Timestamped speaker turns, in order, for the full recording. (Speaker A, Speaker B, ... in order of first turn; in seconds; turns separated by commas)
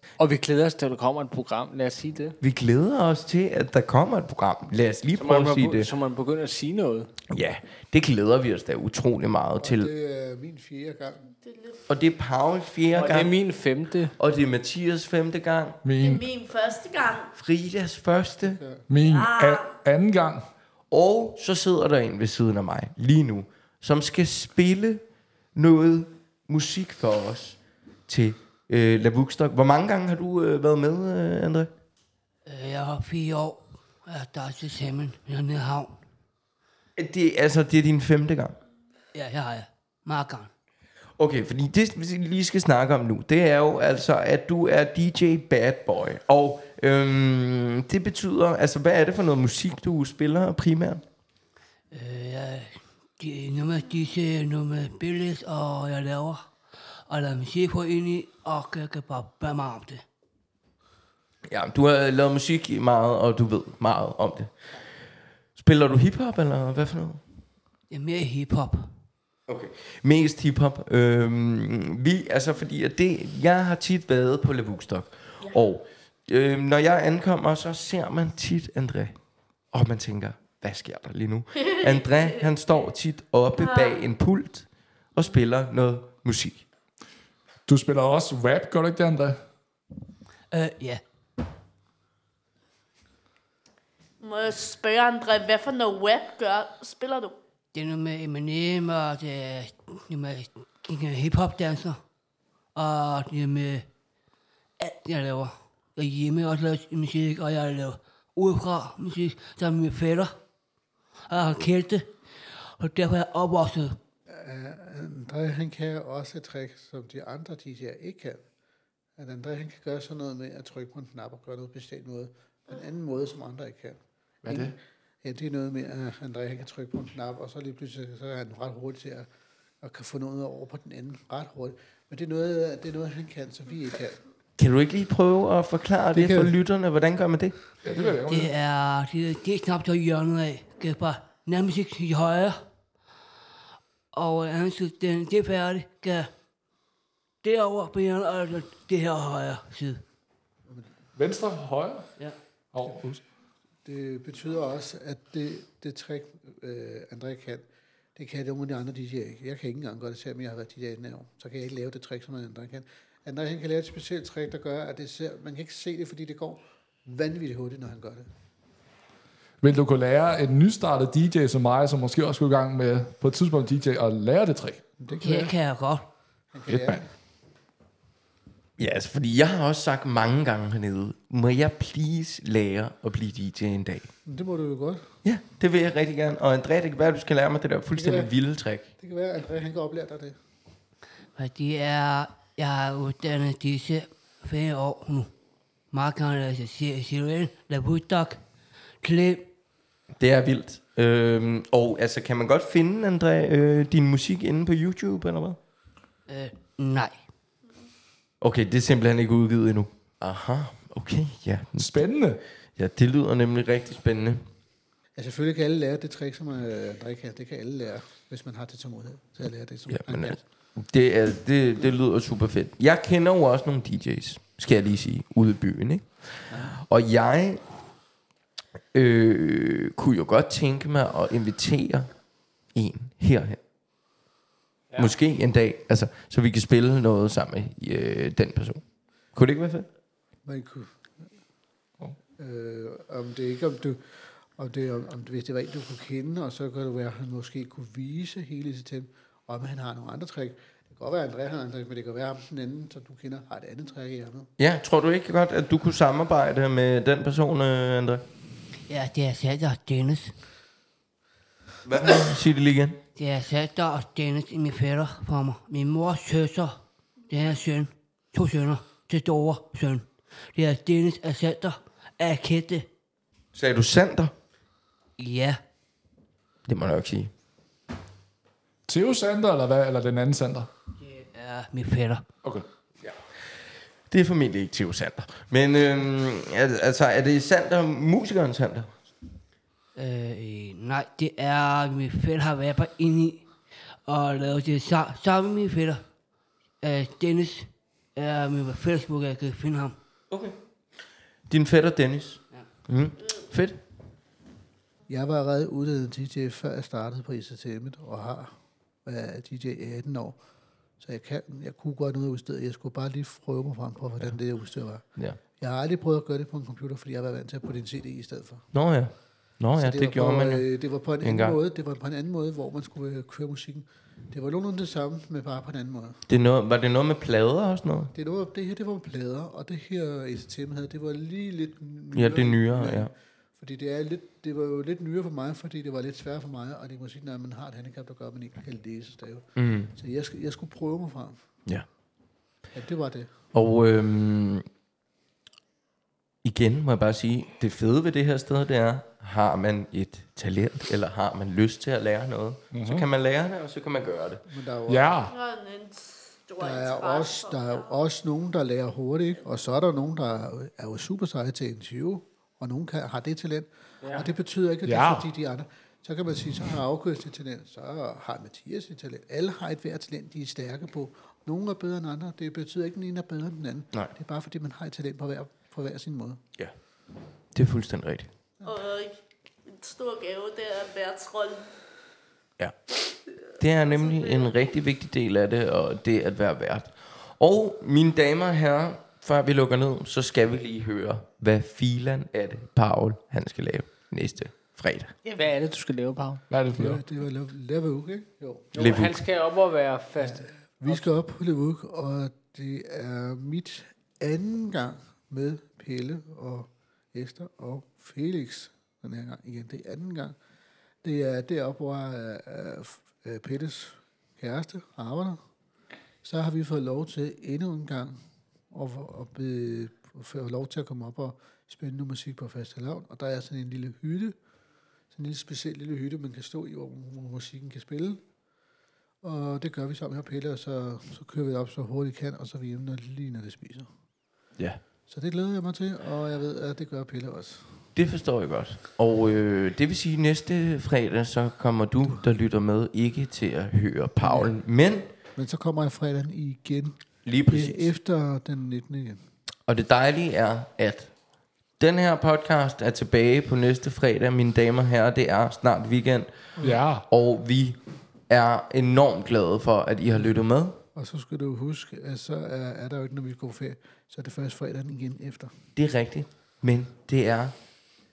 Speaker A: 0.2-2.4, Speaker B: 2.4-5.9, Speaker A: 5.2-7.1, Speaker B: 7.3-9.9, Speaker C: 9.6-11.3, Speaker D: 11.4-11.8, Speaker B: 11.9-13.3, Speaker A: 12.9-14.2, Speaker B: 14.2-15.8, Speaker E: 15.8-16.3, Speaker D: 16.0-17.3, Speaker B: 17.3-18.6, Speaker C: 18.4-18.9, Speaker E: 18.9-20.5, Speaker D: 19.1-19.8, Speaker B: 20.9-25.0, Speaker B: 25.6-31.7, Speaker F: 32.5-36.0, Speaker B: 37.0-38.6, Speaker F: 39.1-40.5, Speaker B: 41.2-51.0, Speaker F: 51.9-56.5, Speaker F: 57.1-60.0, Speaker B: 61.5-64.5, Speaker B: 65.6-67.2, Speaker F: 67.9-68.9, Speaker B: 69.5-79.2, Speaker B: 79.7-86.7, Speaker D: 83.6-84.0, Speaker E: 87.7-89.4, Speaker F: 90.5-91.0, Speaker D: 94.2-97.4, Speaker F: 97.7-102.0, Speaker F: 102.8-103.9, Speaker F: 104.8-110.3, Speaker F: 111.3-112.1, Speaker F: 112.7-114.0, Speaker C: 114.3-118.5, Speaker C: 119.2-129.3, Speaker E: 124.5-124.8, Speaker C: 129.8-134.2, Speaker B: 134.6-137.6, Speaker C: 136.1-136.6, Speaker E: 137.8-138.5, Speaker F: 138.3-142.6, Speaker F: 144.1-146.3, Speaker F: 147.4-150.0, Speaker E: 151.2-152.1, Speaker E: 152.7-153.2, Speaker C: 153.8-168.3, Speaker E: 169.6-174.8, Speaker C: 175.0-175.5, Speaker F: 175.2-176.1, Speaker C: 176.5-177.1, Speaker E: 176.7-177.0, Speaker B: 178.8-184.1, Speaker C: 184.3-185.2, Speaker B: 185.2-188.9, Speaker C: 187.9-188.3, Speaker C: 189.0-190.4, Speaker F: 191.4-195.3, Speaker F: 195.9-198.4, Speaker F: 199.0-199.5, Speaker B: 200.2-205.6, Speaker F: 206.3-207.2, Speaker B: 208.4-212.0, Speaker E: 211.8-212.4, Speaker B: 212.8-214.4, Speaker C: 215.2-220.4, Speaker B: 219.9-227.7, Speaker C: 226.5-226.8, Speaker B: 228.9-232.1, Speaker B: 232.7-233.6, Speaker B: 234.9-239.9, Speaker C: 240.4-241.3, Speaker C: 242.4-254.5, Speaker B: 254.6-258.2, Speaker F: 258.9-260.4, Speaker B: 261.9-263.0, Speaker F: 263.2-272.9, Speaker B: 273.5-274.3, Speaker F: 275.2-275.6, Speaker B: 276.7-277.3, Speaker E: 278.9-280.7, Speaker F: 281.1-282.3, Speaker B: 284.1-288.9, Speaker F: 290.0-293.5, Speaker F: 294.1-296.0, Speaker F: 296.8-300.0, Speaker B: 300.3-300.6, Speaker B: 301.5-303.8, Speaker C: 305.1-310.4, Speaker C: 311.0-315.1, Speaker C: 315.6-318.7, Speaker B: 318.7-320.7, Speaker C: 319.8-326.2, Speaker B: 321.2-321.6, Speaker B: 326.3-328.1, Speaker C: 328.1-341.4, Speaker B: 332.1-333.1, Speaker B: 339.6-339.9, Speaker C: 342.7-343.3, Speaker B: 343.5-344.7, Speaker B: 346.4-354.4, Speaker E: 352.7-353.1, Speaker C: 354.5-355.3, Speaker E: 354.9-355.3, Speaker D: 355.3-357.9, Speaker C: 356.6-376.4, Speaker A: 364.0-364.3, Speaker E: 364.8-365.3, Speaker B: 377.5-378.3, Speaker D: 378.6-381.7, Speaker B: 383.6-395.1, Speaker D: 384.1-384.5, Speaker A: 395.2-396.4, Speaker E: 396.5-397.0, Speaker C: 396.7-398.7, Speaker A: 398.7-401.1, Speaker B: 398.8-399.2, Speaker C: 400.2-410.4, Speaker C: 411.0-415.4, Speaker C: 416.2-418.2, Speaker C: 418.7-424.4, Speaker C: 425.1-428.2, Speaker C: 429.2-433.9, Speaker C: 435.1-437.8, Speaker B: 437.9-445.1, Speaker C: 444.2-444.6, Speaker C: 445.4-449.2, Speaker B: 447.2-447.9, Speaker B: 449.7-451.1, Speaker B: 451.8-460.8, Speaker E: 456.6-457.1, Speaker C: 460.9-465.6, Speaker B: 465.8-467.6